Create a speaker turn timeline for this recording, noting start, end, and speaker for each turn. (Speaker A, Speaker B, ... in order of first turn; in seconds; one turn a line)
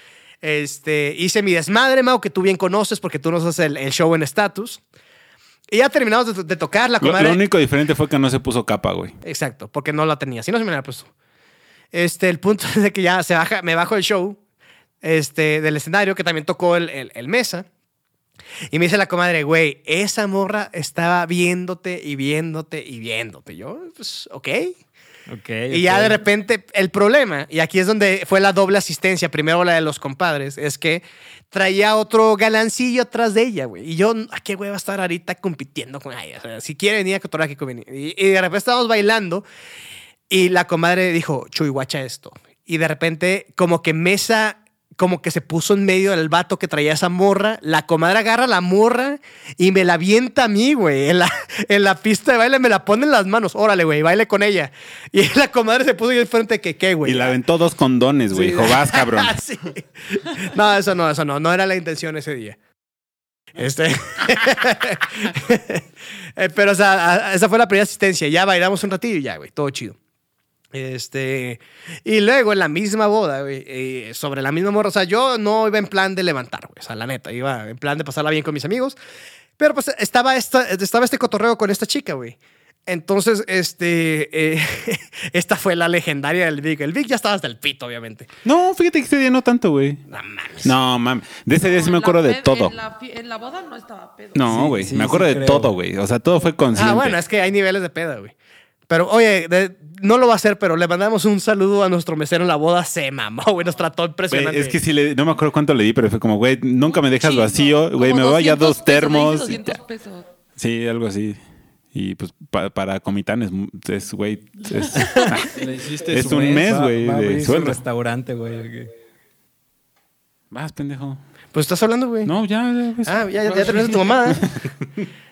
Speaker A: 0.4-4.8
Speaker A: 5.7-7.4
Speaker B: 7.0-9.2
Speaker A: 9.2-11.1
Speaker A: 11.9-14.4
Speaker A: 15.0-17.7
Speaker A: 18.7-24.7
Speaker C: 25.3-26.2
Speaker A: 25.7-39.4
Speaker A: 40.3-57.3
Speaker B: 57.0-59.4
Speaker A: 58.3-62.6
Speaker A: 63.5-65.8
Speaker A: 66.3-70.0
Speaker A: 70.7-79.0
Speaker A: 79.6-88.3
Speaker B: 88.4-90.0
Speaker A: 90.1-90.7
Speaker B: 90.6-92.7
Speaker D: 91.6-94.6
Speaker B: 94.3-97.2
Speaker C: 94.5-95.7
Speaker A: 96.7-98.3
Speaker A: 98.9-104.8
Speaker B: 104.3-109.8
Speaker D: 106.9-110.2
Speaker B: 110.6-111.4
Speaker B: 111.9-115.6
Speaker D: 115.0-115.4
Speaker E: 115.5-116.9
Speaker B: 116.1-117.8
Speaker C: 116.3-118.9
Speaker B: 120.5-121.2
Speaker A: 121.5-122.3
Speaker B: 122.2-123.2
Speaker A: 123.0-124.6
Speaker E: 123.5-124.1